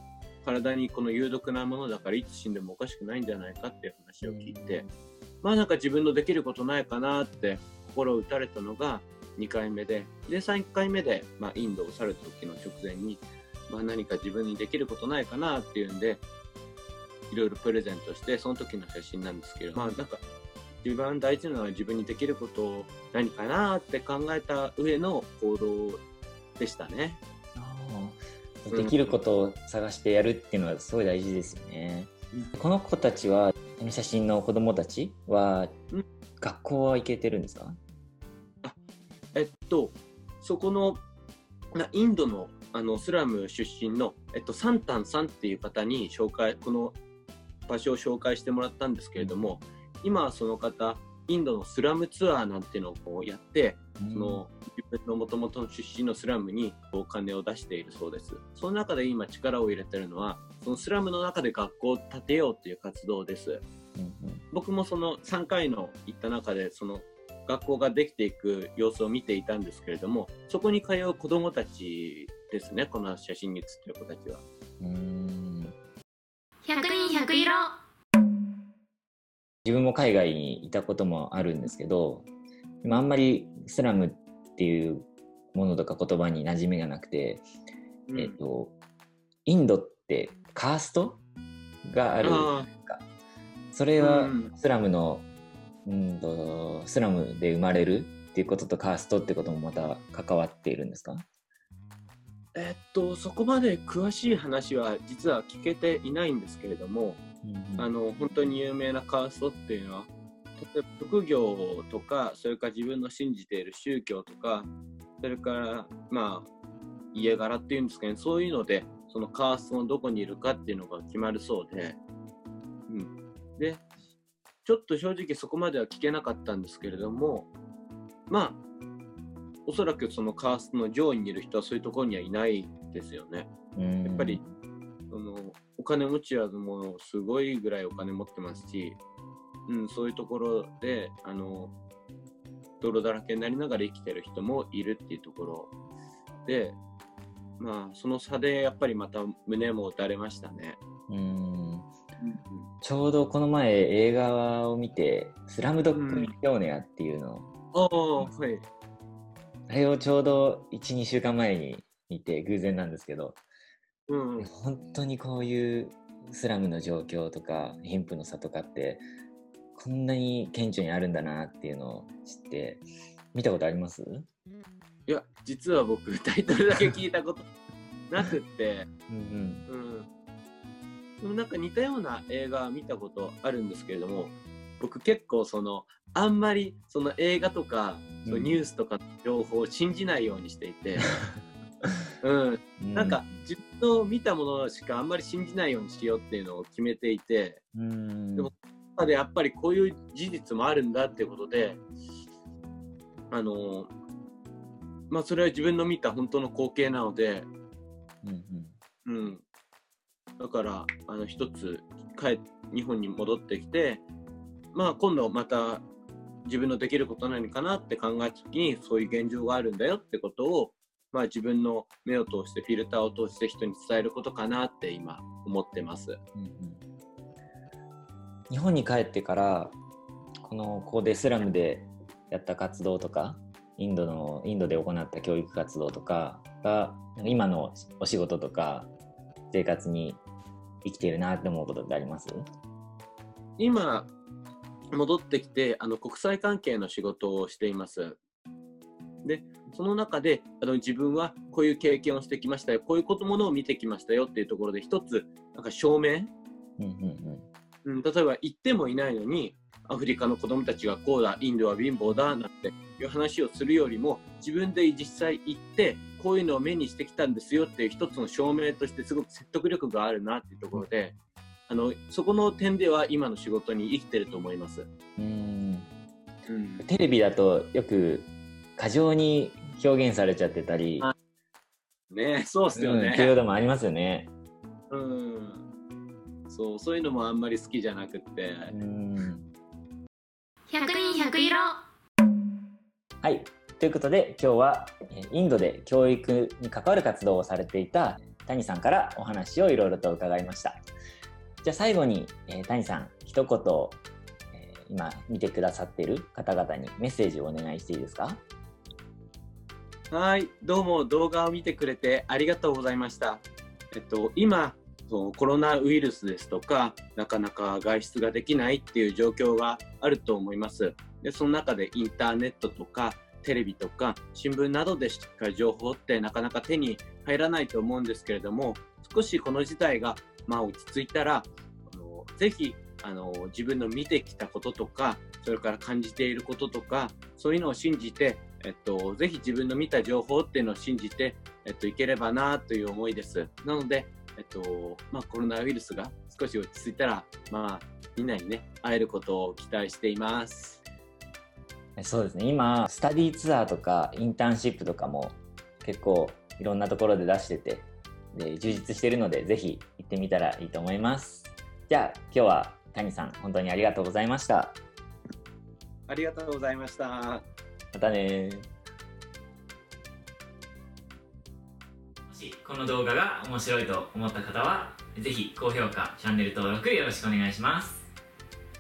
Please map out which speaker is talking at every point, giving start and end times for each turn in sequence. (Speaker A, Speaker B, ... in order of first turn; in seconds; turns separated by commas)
Speaker A: 0.4-4.8, Speaker B: 4.2-4.9, Speaker A: 5.4-16.2, Speaker A: 17.3-20.2, Speaker A: 20.8-26.0, Speaker A: 26.6-27.2, Speaker B: 27.6-35.7, Speaker A: 28.7-29.2, Speaker B: 36.4-37.8, Speaker A: 39.3-41.0, Speaker A: 41.7-47.0, Speaker A: 47.7-63.6, Speaker B: 49.2-49.6, Speaker B: 54.0-54.4, Speaker B: 64.0-64.4, Speaker A: 64.5-74.4, Speaker B: 74.8-75.7, Speaker C: 76.6-77.7, Speaker B: 79.6-82.3, Speaker B: 82.8-87.4, Speaker A: 88.1-88.3, Speaker B: 88.1-88.7, Speaker B: 89.5-91.2, Speaker B: 91.8-93.0, Speaker A: 92.2-92.7, Speaker B: 93.7-95.2, Speaker A: 94.0-94.5, Speaker B: 95.8-101.2, Speaker A: 102.5-107.2, Speaker B: 107.4-108.5, Speaker A: 107.8-116.5, Speaker A: 117.1-122.0, Speaker A: 122.9-123.8, Speaker A: 124.6-127.5, Speaker A: 128.3-128.6, Speaker A: 129.6-133.5, Speaker B: 133.8-134.4, Speaker A: 134.0-134.4, Speaker A: 135.1-139.0, Speaker A: 139.7-141.7, Speaker A: 142.8-145.7, Speaker A: 146.4-146.8, Speaker A: 147.6-150.8, Speaker B: 151.1-151.9, Speaker A: 152.2-152.7, Speaker B: 152.8-157.5, Speaker A: 155.9-156.3, Speaker A: 157.7-158.6, Speaker B: 159.7-163.4, Speaker A: 164.1-164.5, Speaker B: 164.4-169.0, Speaker B: 169.7-174.3, Speaker A: 175.1-177.5, Speaker A: 178.1-178.9, Speaker B: 179.1-179.7, Speaker A: 179.7-180.1, Speaker A: 181.2-191.1, Speaker B: 188.2-188.6, Speaker A: 192.2-197.6, Speaker B: 192.8-193.2, Speaker B: 197.7-198.5, Speaker A: 198.4-201.8, Speaker A: 203.3-203.9, Speaker A: 205.1-207.5, Speaker B: 208.2-208.7, Speaker A: 209.0-209.4, Speaker A: 210.4-214.0, Speaker A: 214.7-215.8, Speaker A: 216.4-226.2, Speaker B: 226.3-226.8, Speaker B: 228.5-229.8, Speaker B: 230.4-238.9, Speaker B: 239.5-240.2, Speaker B: 240.8-242.4, Speaker A: 243.6-244.1, Speaker A: 244.9-248.2, Speaker A: 249.2-256.3, Speaker B: 256.8-257.4, Speaker A: 257.8-271.2, Speaker A: 271.7-274.9, Speaker B: 275.2-275.9, Speaker A: 276.4-276.8, Speaker B: 276.8-281.1, Speaker A: 282.1-283.3, Speaker B: 282.7-284.3, Speaker A: 284.9-285.6, Speaker A: 286.5-288.7, Speaker B: 288.7-289.5, Speaker C: 290.7-291.8, Speaker B: 293.2-300.8, Speaker B: 301.6-308.4, Speaker A: 310.1-350.8, Speaker B: 352.0-364.8, Speaker A: 366.1-367.5, Speaker B: 367.9-368.7, Speaker B: 372.3-378.1